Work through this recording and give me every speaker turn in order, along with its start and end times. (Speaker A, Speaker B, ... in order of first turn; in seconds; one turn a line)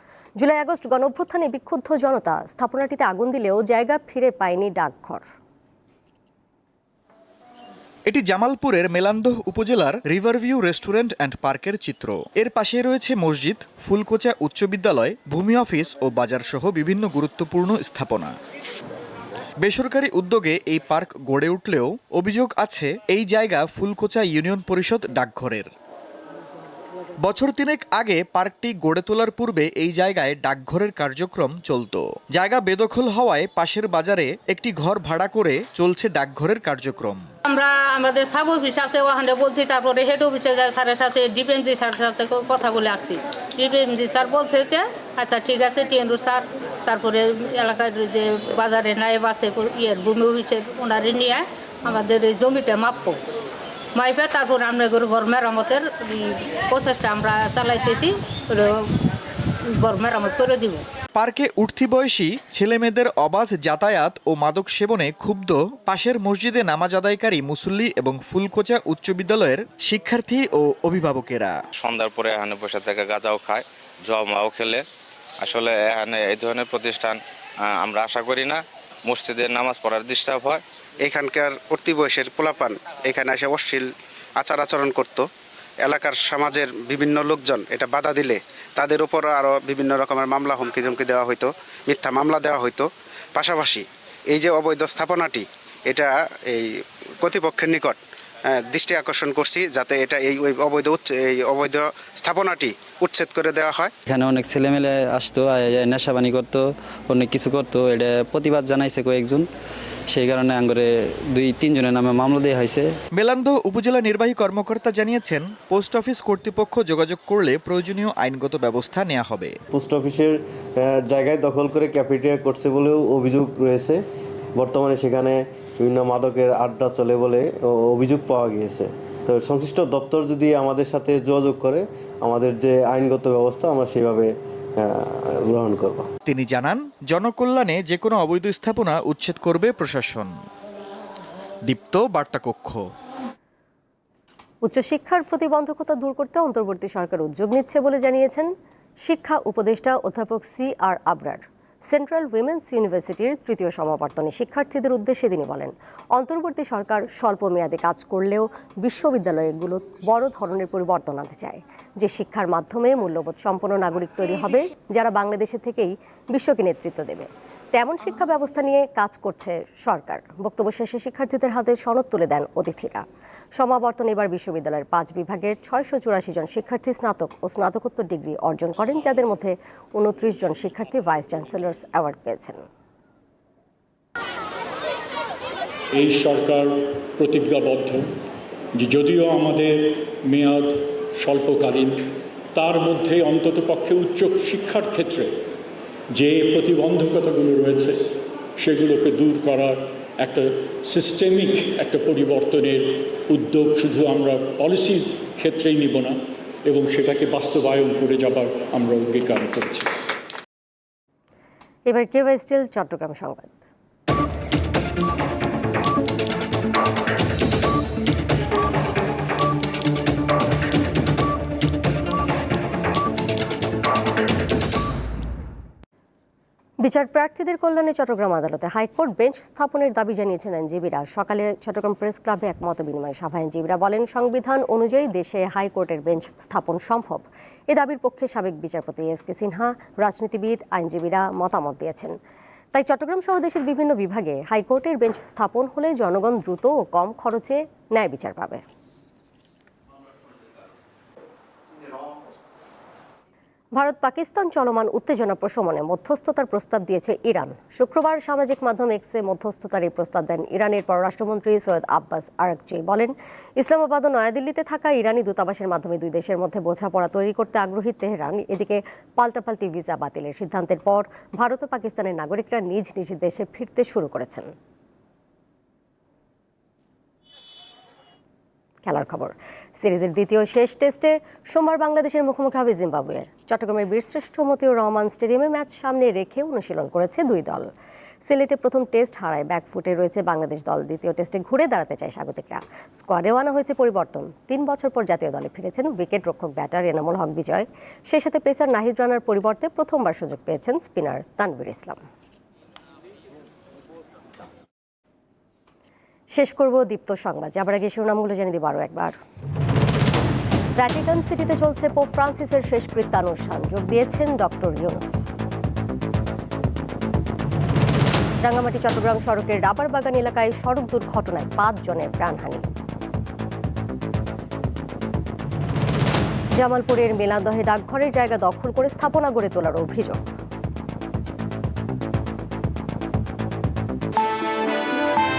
Speaker A: 0.4-5.2
Speaker B: 8.1-18.3
Speaker B: 19.6-25.7
Speaker B: 27.2-37.3
Speaker C: 37.5-53.2
Speaker C: 54.0-58.8
Speaker C: 59.7-60.8
Speaker B: 61.1-71.6
Speaker D: 71.8-74.8
Speaker D: 75.4-77.2
Speaker D: 77.7-80.6
Speaker E: 81.0-85.3
Speaker E: 85.8-96.7
Speaker E: 97.2-98.0
Speaker E: 98.5-103.9
Speaker F: 104.1-109.5
Speaker F: 110.1-112.9
Speaker B: 113.1-119.5
Speaker G: 119.8-120.3
Speaker G: 120.8-124.0
Speaker G: 124.6-125.3
Speaker G: 125.8-134.3
Speaker G: 135.5-136.0
Speaker B: 136.3-140.3
Speaker B: 141.7-142.8
Speaker A: 144.6-148.5
Speaker A: 149.0-173.0
Speaker A: 173.6-182.6
Speaker H: 186.0-188.1
Speaker H: 188.8-195.4
Speaker H: 196.1-209.9
Speaker A: 211.9-213.6
Speaker A: 226.8-242.1
Speaker A: 242.7-248.6
Speaker A: 253.8-274.5
Speaker A: 278.8-287.7
Speaker A: 288.2-302.0
Speaker A: 306.3-309.1
Speaker A: 310.8-315.2
Speaker A: 318.4-322.7
Speaker A: 326.6-330.2